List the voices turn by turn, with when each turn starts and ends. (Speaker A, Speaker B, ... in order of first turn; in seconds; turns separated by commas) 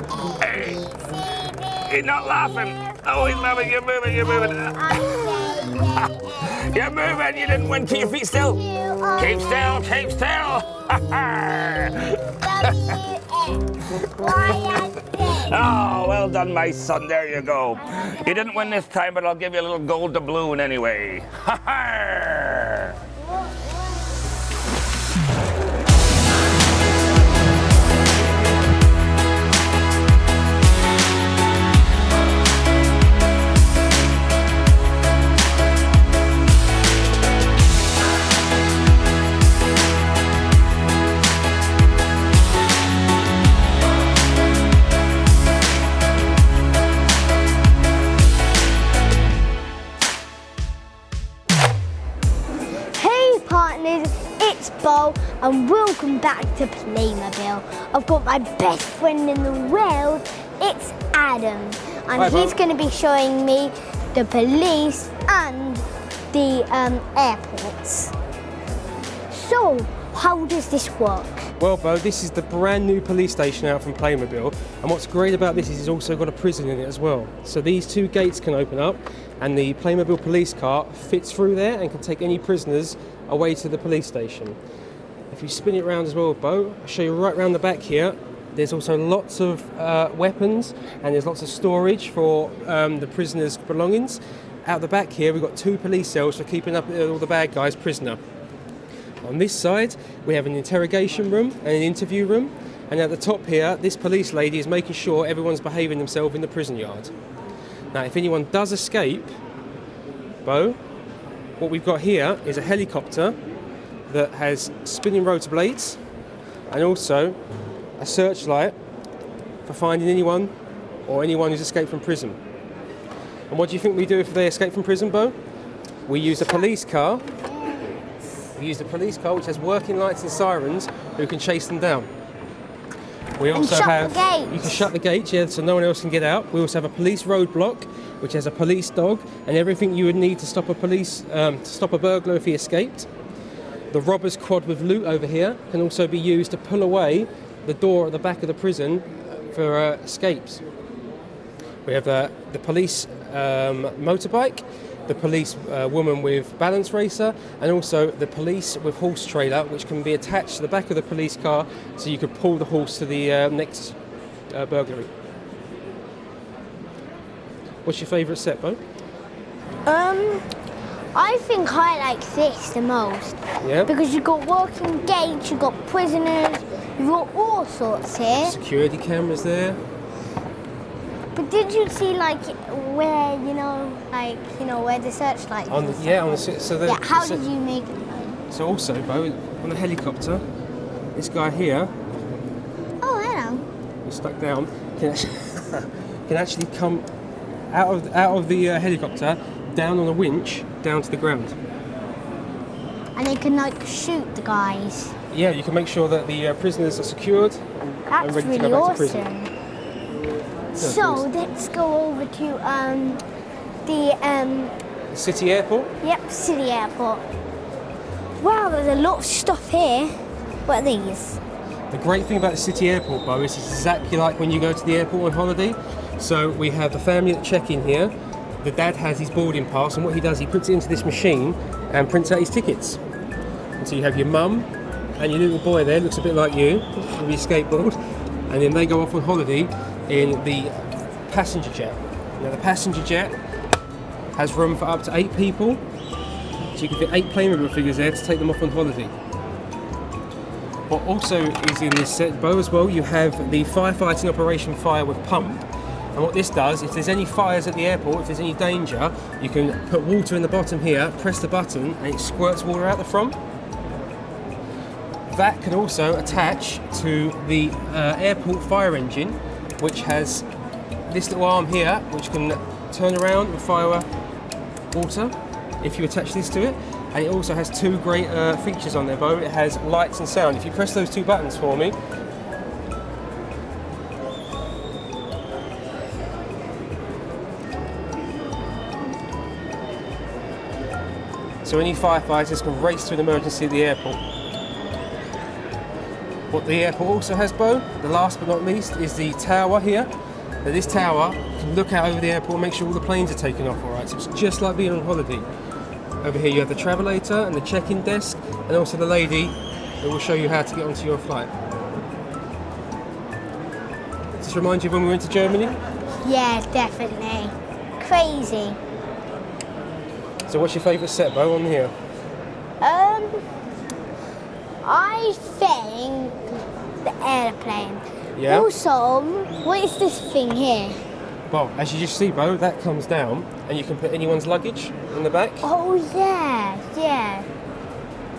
Speaker A: 0.4-0.9, Speaker B: 1.1-3.3, Speaker A: 1.8-8.6, Speaker B: 4.1-7.8, Speaker B: 8.3-9.8, Speaker A: 9.2-13.0, Speaker B: 12.3-15.6, Speaker A: 15.4-22.9, Speaker B: 17.9-18.8, Speaker B: 23.3-23.7, Speaker B: 52.9-68.1, Speaker C: 62.1-62.6, Speaker B: 69.3-71.5, Speaker C: 71.6-84.6, Speaker C: 85.3-98.2, Speaker C: 99.2-107.1, Speaker C: 107.9-109.3, Speaker C: 110.5-110.8, Speaker C: 111.6-113.4, Speaker C: 114.1-116.0, Speaker C: 116.7-117.4, Speaker C: 118.0-118.8, Speaker C: 119.7-120.5, Speaker C: 121.1-122.4, Speaker C: 123.5-125.3, Speaker C: 126.1-127.2, Speaker B: 126.4-126.7, Speaker B: 127.2-128.0, Speaker C: 128.6-132.1, Speaker C: 133.4-143.1, Speaker B: 133.5-134.9, Speaker C: 143.9-150.6, Speaker C: 151.8-164.0, Speaker C: 164.5-165.1, Speaker C: 167.8-168.8, Speaker B: 169.8-170.5, Speaker B: 171.1-178.6, Speaker C: 173.6-173.9, Speaker C: 178.4-179.8, Speaker B: 181.3-188.4, Speaker C: 185.7-187.5, Speaker C: 188.5-190.4, Speaker C: 191.2-191.9, Speaker B: 193.0-193.6, Speaker C: 194.0-197.1, Speaker C: 197.7-201.6, Speaker B: 203.2-205.1, Speaker C: 205.3-209.2, Speaker B: 208.1-209.5, Speaker B: 210.7-213.2, Speaker C: 210.8-211.3, Speaker B: 213.8-214.7, Speaker C: 215.1-215.9, Speaker B: 216.0-217.2, Speaker B: 218.4-220.2, Speaker B: 220.7-221.4, Speaker C: 221.9-233.0, Speaker C: 233.8-238.0, Speaker C: 238.5-243.3, Speaker C: 244.3-245.8, Speaker C: 246.7-249.1, Speaker C: 250.9-255.6, Speaker C: 256.1-263.4, Speaker C: 265.3-270.5, Speaker C: 271.1-274.1, Speaker C: 274.9-282.0, Speaker C: 291.6-294.2, Speaker C: 296.5-300.1, Speaker C: 300.6-305.5, Speaker C: 306.2-311.5, Speaker C: 314.4-315.8, Speaker B: 316.2-318.8, Speaker C: 320.5-321.9, Speaker B: 322.8-323.4, Speaker B: 324.8-331.0, Speaker C: 328.4-328.7, Speaker C: 331.5-335.6, Speaker B: 335.6-337.5